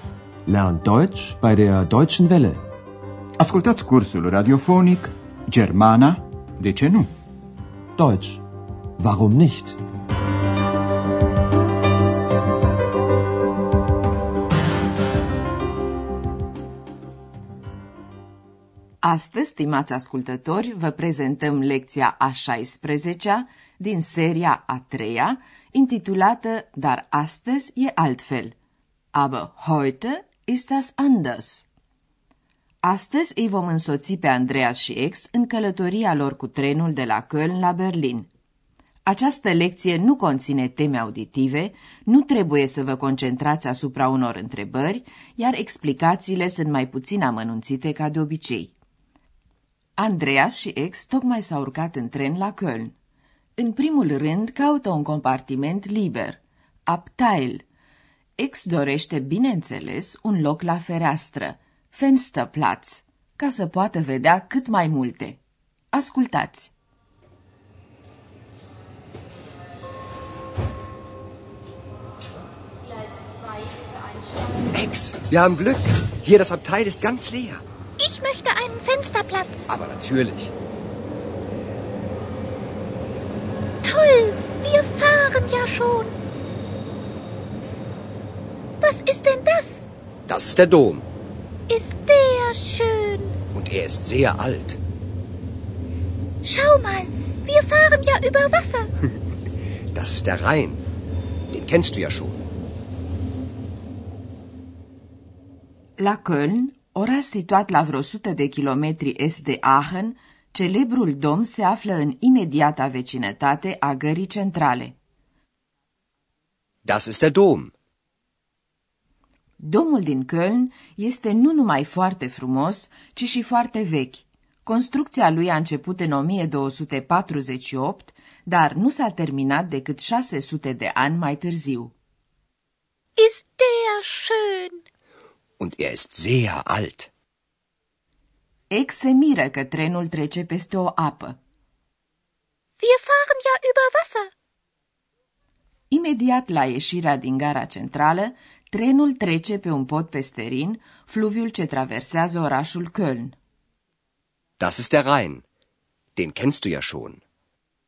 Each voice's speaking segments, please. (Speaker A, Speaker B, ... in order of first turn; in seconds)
Speaker A: 0.5-2.6, 8.0-8.4, 9.0-9.8
Speaker B: 3.4-7.1
Speaker C: 19.0-28.6, 29.1-31.6, 32.8-38.3, 39.0-48.7, 50.0-52.9, 53.6-57.6, 58.4-65.4, 65.9-66.7, 106.0-115.0, 119.6-131.9, 138.7-141.4, 145.9-153.3
Speaker D: 74.7-77.6, 79.7-80.5, 90.3-91.1, 93.5-94.8, 99.9-100.8, 101.5-102.4, 116.8-117.7, 135.6-137.1, 154.6-155.4, 156.1-157.2
Speaker E: 78.0-79.7, 83.8-86.2, 88.8-89.9, 91.7-93.3, 96.4-98.9, 133.2-134.8, 142.8-144.3